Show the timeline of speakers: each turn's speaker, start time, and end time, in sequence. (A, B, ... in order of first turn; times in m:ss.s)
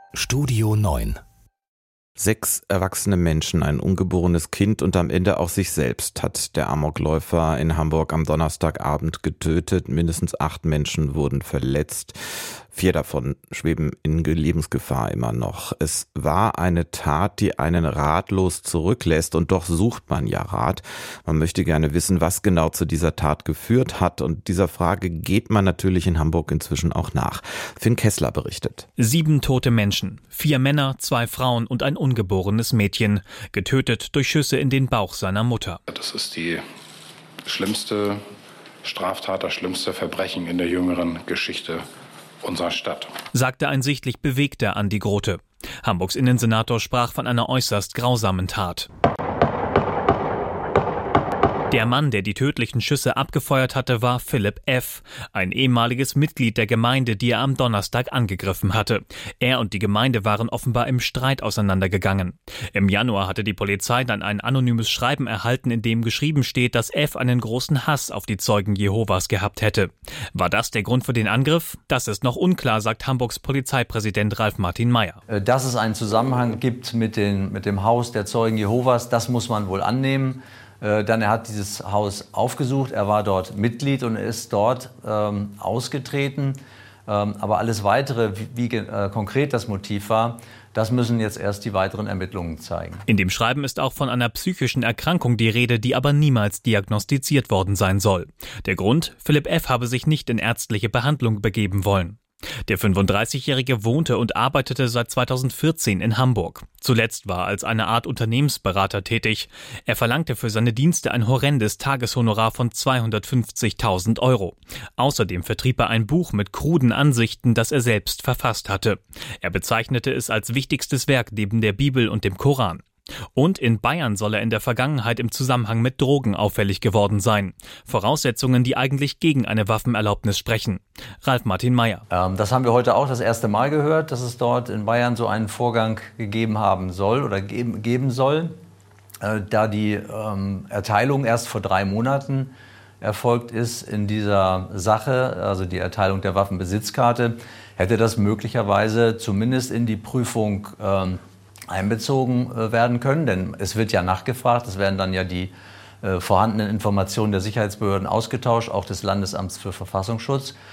0:00.2-0:01.2 A
0:02.2-0:12.2 B
0:12.7-0:28.9 B
0:29.0-0:35.8 C
0:35.9-0:36.6 D
0:36.1-0:36.6 A
0:37.5-0:38.2 D
0:37.5-0:37.9 A
0:38.8-0:41.8 D
0:38.8-0:41.8 A
0:42.4-0:42.9 A
0:42.4-0:43.1 D
0:43.3-0:48.9 C
0:51.7-1:15.2 C
1:15.3-1:33.1 E
1:33.1-2:02.8 C
2:03.4-2:12.0 C
2:12.1-2:18.5 E
2:19.2-2:40.6 E